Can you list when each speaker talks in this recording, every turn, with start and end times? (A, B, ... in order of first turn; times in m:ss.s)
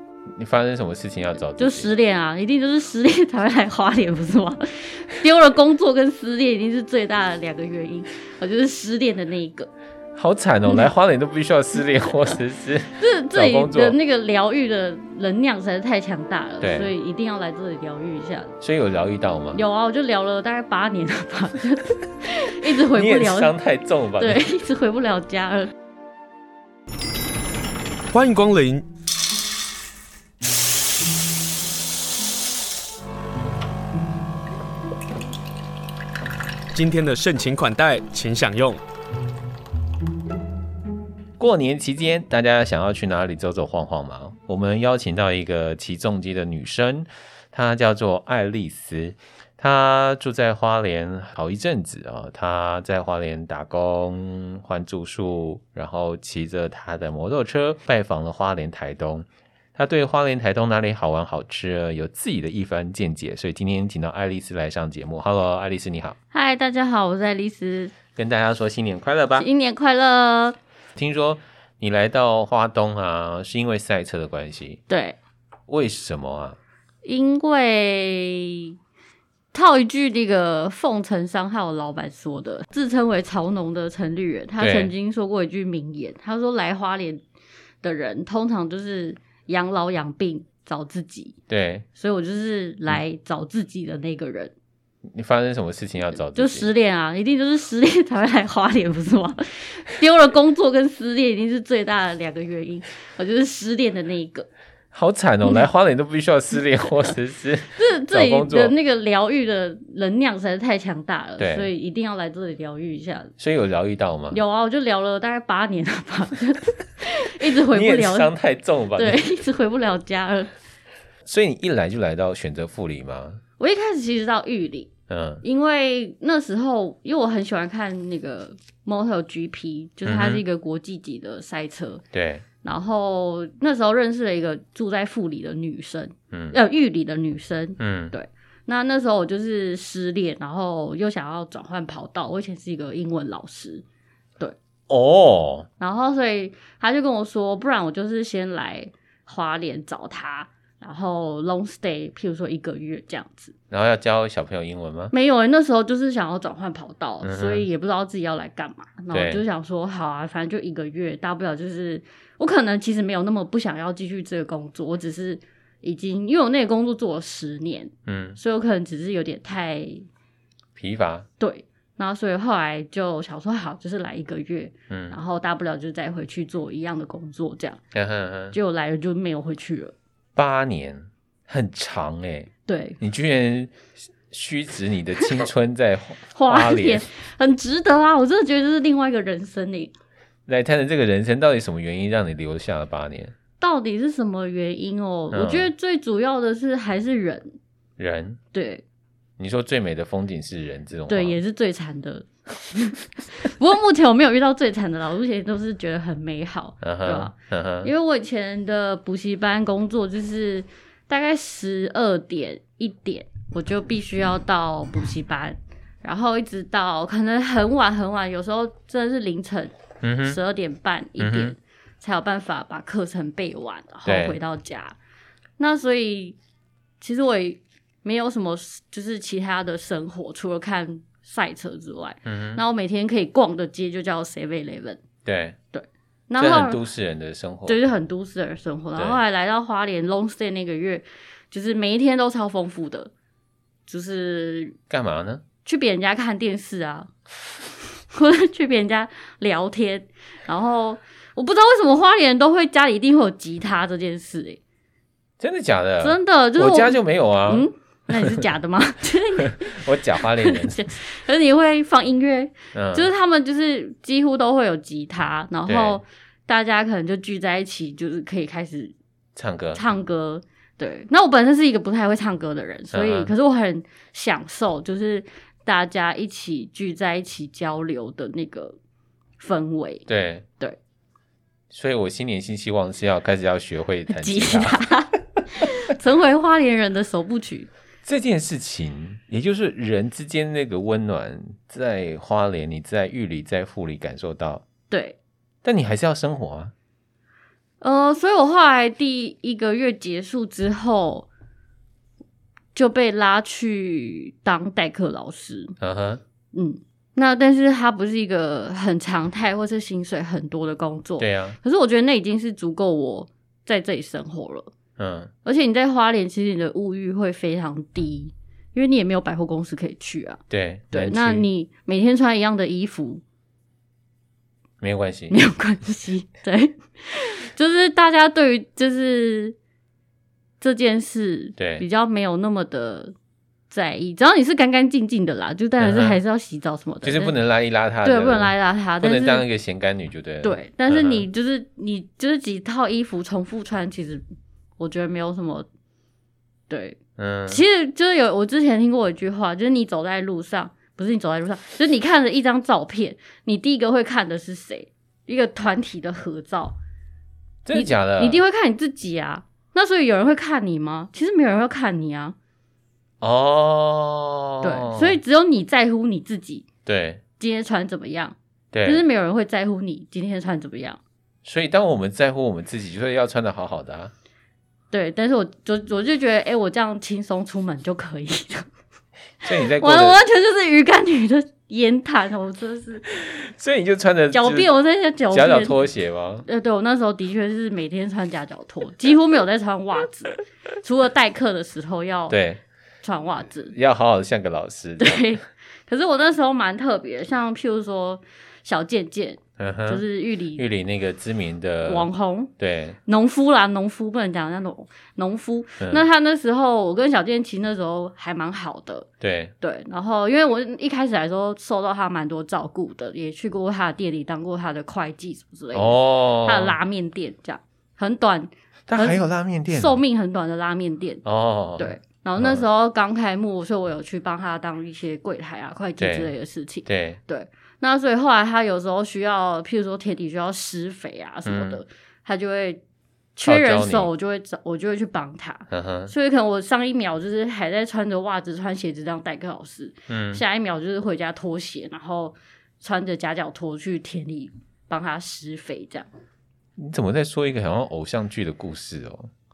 0:00.4-0:02.0 A
0:01.6-0:09.7 B
0:10.2-0:14.0 A
0:13.0-0:18.5 B
0:16.6-0:16.9 A
0:18.6-0:19.6 A
0:19.5-0:23.5 B
0:22.8-0:24.5 A
0:24.2-0:25.7 B
0:28.1-0:28.8 C
0:36.7-0:38.8 C
0:41.4-1:06.2 A
1:06.3-1:08.0 B
1:08.1-1:09.5 A
1:09.4-1:10.6 B
1:11.0-1:14.8 A
1:14.9-1:15.2 B
1:15.7-1:16.6 A
1:17.0-1:18.8 B
1:19.5-1:27.2 B
1:24.6-1:24.9 A
1:27.8-1:31.4 B
1:31.5-1:31.9 A
1:32.0-1:34.5 B
1:35.1-1:36.7 A
1:36.3-1:44.5 B
1:44.9-1:48.7 A
1:47.8-1:53.3 B
1:51.4-1:51.7 A
1:53.4-1:54.4 A
1:54.3-1:58.3 B
1:57.7-1:59.4 A
1:59.0-2:00.5 B
2:01.2-2:03.4 A
2:03.6-2:12.0 B
2:05.1-2:05.4 A
2:10.0-2:10.4 A
2:12.1-2:12.4 A
2:12.6-2:23.8 B
2:16.3-2:16.6 A
2:17.8-2:18.1 A
2:24.9-2:25.7 A
2:25.8-2:33.5 B
2:33.7-2:35.1 A
2:35.1-2:50.1 B
2:37.2-2:37.7 A
2:39.1-2:39.4 A
2:48.1-2:48.4 A
2:50.8-2:51.3 A
2:51.4-2:57.8 B
2:54.9-2:55.2 A
2:57.9-2:58.6 A
2:58.5-2:59.9 B
3:00.4-3:07.0 A
3:02.7-3:03.0 B
3:06.3-3:09.9 B
3:10.5-3:13.4 A
3:13.6-3:17.6 B
3:15.3-3:15.7 A
3:18.0-3:18.4 A
3:18.5-3:18.8 B
3:19.4-3:21.4 A
3:21.1-3:39.7 B
3:26.8-3:27.9 A
3:40.0-3:40.4 A
3:40.2-3:45.0 B
3:41.2-3:41.6 A
3:44.0-3:44.4 A
3:45.6-3:46.4 B
3:47.0-3:55.0 B
3:52.3-3:52.6 A
3:55.2-3:55.6 A
3:55.7-3:56.8 B
3:56.4-3:57.8 A
3:57.7-4:03.1 B
4:03.9-4:04.8 B
4:04.9-4:05.4 A
4:05.6-4:07.1 B
4:08.0-4:14.6 B
4:15.4-4:17.7 A
4:16.0-4:19.8 B
4:19.6-4:20.8 A
4:20.4-4:28.9 B
4:22.7-4:23.1 A
4:25.7-4:26.0 A
4:29.4-4:29.8 A
4:29.7-4:38.8 B
4:32.9-4:33.3 A
4:39.4-4:40.0 B
4:40.1-4:40.5 A
4:41.7-4:44.9 A
4:44.1-4:47.7 B
4:48.0-4:54.6 A
4:54.9-4:55.2 B
4:55.6-4:56.7 A
4:57.8-5:01.3 B
5:02.8-5:05.8 B
5:05.8-5:06.2 A
5:06.5-5:14.7 B
5:11.2-5:11.6 A
5:15.0-5:15.3 A
5:15.4-5:20.4 B
5:20.5-5:21.5 A
5:20.9-5:23.2 B
5:24.8-5:25.4 A
5:25.3-5:29.6 B
5:30.6-5:33.1 B
5:31.6-5:31.8 A
5:33.7-5:37.4 B
5:35.8-5:36.2 A
5:37.0-5:41.3 A
5:38.0-5:39.5 B
5:40.4-5:44.2 B
5:44.8-5:45.7 B
5:46.7-5:56.8 B
5:47.2-5:47.6 A
5:57.6-5:58.4 A
5:57.7-6:02.4 B
6:03.2-6:05.2 A
6:04.6-6:06.7 B
6:06.8-6:07.2 A
6:07.4-6:11.0 B
6:08.7-6:09.0 A
6:11.4-6:14.1 A
6:14.9-6:18.7 B
6:19.4-6:20.2 A
6:19.6-6:23.1 B
6:23.1-6:24.7 A
6:24.3-6:25.8 B
6:25.3-6:26.4 A
6:26.5-6:32.4 B
6:32.3-6:32.6 A
6:33.0-6:33.8 B
6:33.7-6:35.4 A
6:35.0-6:40.6 B
6:39.6-6:40.0 A
6:40.6-6:42.1 A
6:41.8-6:42.5 B
6:42.6-6:43.0 A
6:43.1-6:49.1 B
6:45.8-6:46.1 A
6:49.2-6:49.5 A
6:49.6-7:01.2 B
6:55.7-6:56.8 A
6:58.9-7:00.0 A
7:01.2-7:02.6 A
7:01.8-7:12.8 B
7:06.0-7:06.3 A
7:06.9-7:07.2 A
7:11.5-7:11.8 A
7:13.4-7:26.1 B
7:13.4-7:14.1 A
7:15.7-7:16.1 A
7:20.1-7:20.4 A
7:26.8-7:29.3 A